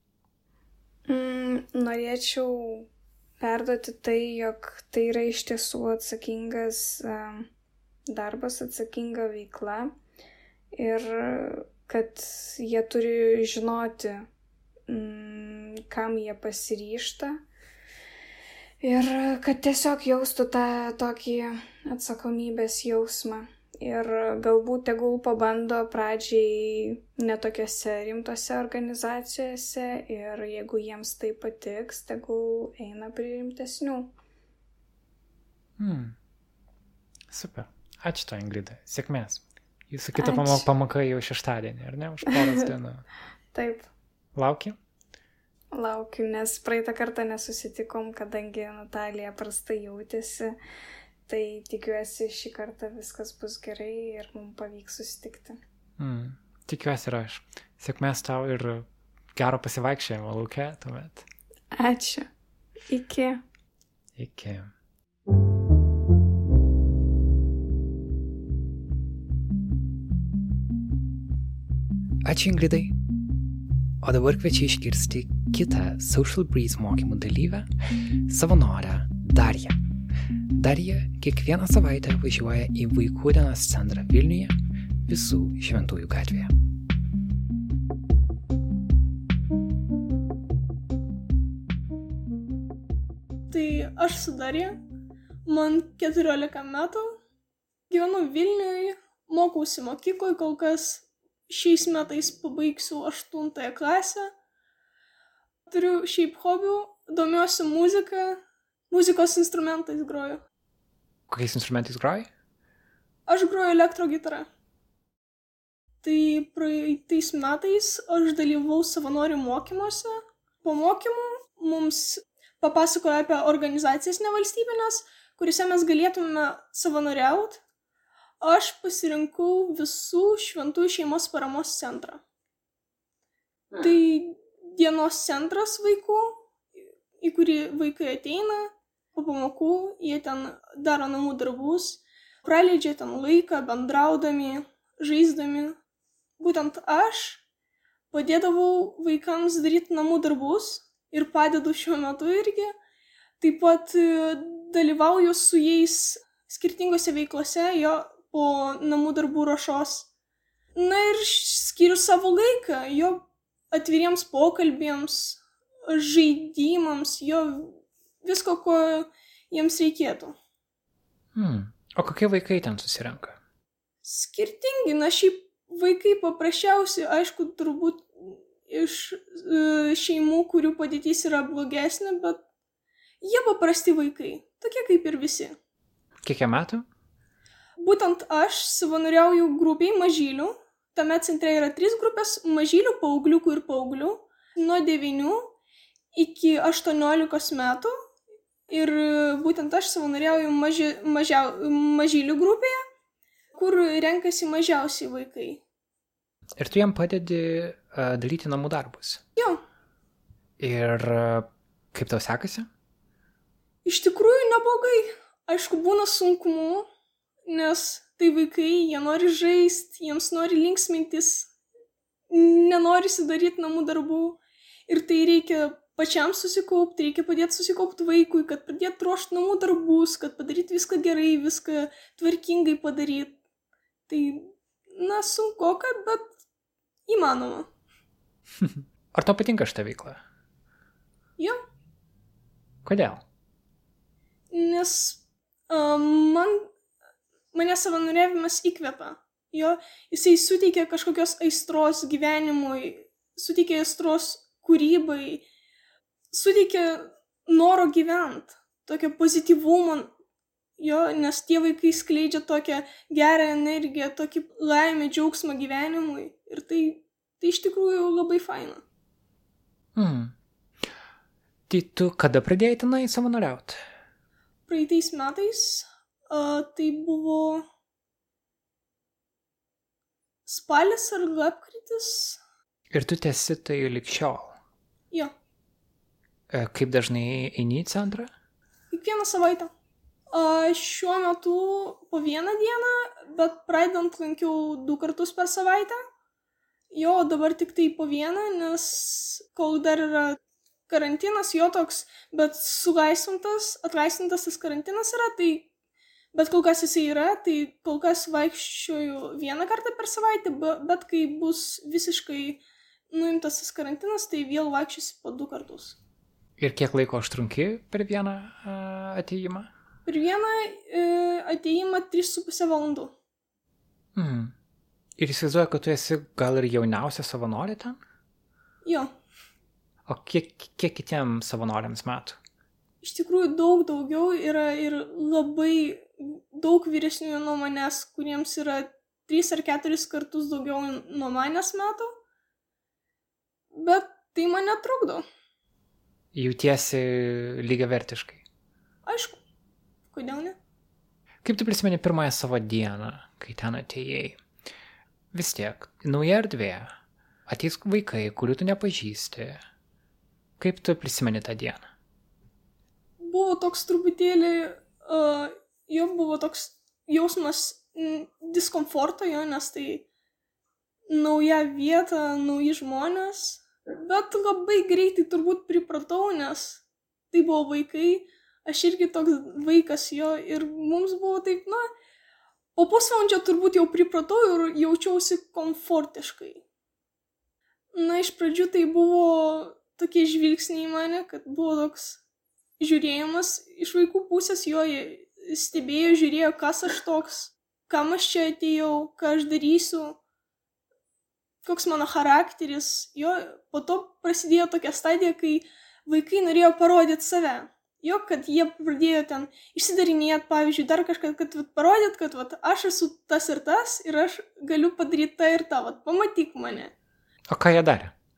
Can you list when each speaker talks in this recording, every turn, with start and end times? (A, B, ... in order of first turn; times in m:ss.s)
0:01.1-0:02.9 A
0:03.4-0:07.5 A
0:08.1-0:09.9 A
0:10.7-0:14.3 A
0:14.9-0:17.4 A
0:18.8-0:34.1 A
0:35.8-0:36.2 B
0:37.3-0:43.0 B
0:40.2-0:40.7 A
0:43.5-0:43.9 A
0:44.4-0:44.8 B
0:45.7-0:50.6 A
0:51.3-0:55.6 A
0:56.0-1:01.3 B
1:01.8-1:02.3 A
1:02.9-1:03.4 A
1:04.2-1:04.7 B
1:12.2-1:13.0 B
1:14.0-1:17.7 B
1:18.3-1:19.8 B
1:20.5-1:24.6 B
1:25.1-1:26.5 B
1:33.5-1:34.8 C
1:35.5-1:37.2 C
1:37.9-1:44.3 C
1:45.7-1:50.4 C
1:51.3-1:52.3 B
1:53.3-1:54.5 C
1:56.0-2:07.6 C
2:08.4-2:12.2 C
2:13.7-2:16.4 C
2:17.2-2:25.8 C
2:26.4-2:27.4 C
2:28.1-2:32.8 C
2:33.4-2:40.1 C
2:40.8-2:50.4 C
2:51.3-2:53.4 B
2:54.0-3:02.4 C
3:03.2-3:05.6 C
3:06.2-3:06.9 B
3:07.8-3:15.5 C
3:16.1-3:17.9 C
3:18.7-3:22.8 C
3:23.5-3:25.6 C
3:26.6-3:29.2 B
3:29.4-3:29.6 C
3:30.6-3:32.7 B
3:33.8-3:36.9 C
3:37.5-3:41.5 C
3:42.3-3:53.4 C
3:54.1-3:56.3 C
3:57.1-3:57.7 C
3:58.6-4:00.2 B
4:02.8-4:03.2 B
4:04.5-4:06.7 C
4:07.5-4:15.4 C
4:16.3-4:20.1 C
4:20.8-4:28.8 C
4:30.0-4:30.3 B
4:31.7-4:33.8 B
4:34.7-4:37.7 C
4:40.5-4:42.4 C
4:42.9-4:44.6 B
4:46.5-4:48.3 B
4:48.9-4:49.7 C
4:50.3-4:56.0 C
4:56.9-5:00.4 C
5:00.9-5:05.7 C
5:06.3-5:12.6 C
5:13.1-5:16.0 C
5:16.6-5:19.7 B
5:20.1-5:23.1 C
5:24.2-5:24.5 B
5:25.2-5:28.0 B
5:28.8-5:29.1 C
5:30.1-5:32.4 B
5:33.0-5:42.1 C
5:43.7-5:45.2 C
5:46.3-5:48.4 B
5:49.0-5:49.4 C
5:50.1-5:50.6 C
5:51.4-5:54.4 B
5:55.3-5:56.9 B
5:57.5-5:59.6 B
6:00.6-6:01.9 B
6:03.2-6:10.1 C
6:11.1-6:16.8 C
6:17.3-6:21.9 C
6:22.8-6:26.6 C
6:27.9-6:32.2 C
6:32.8-6:40.2 C
6:41.6-6:56.9 C
6:57.5-6:58.1 B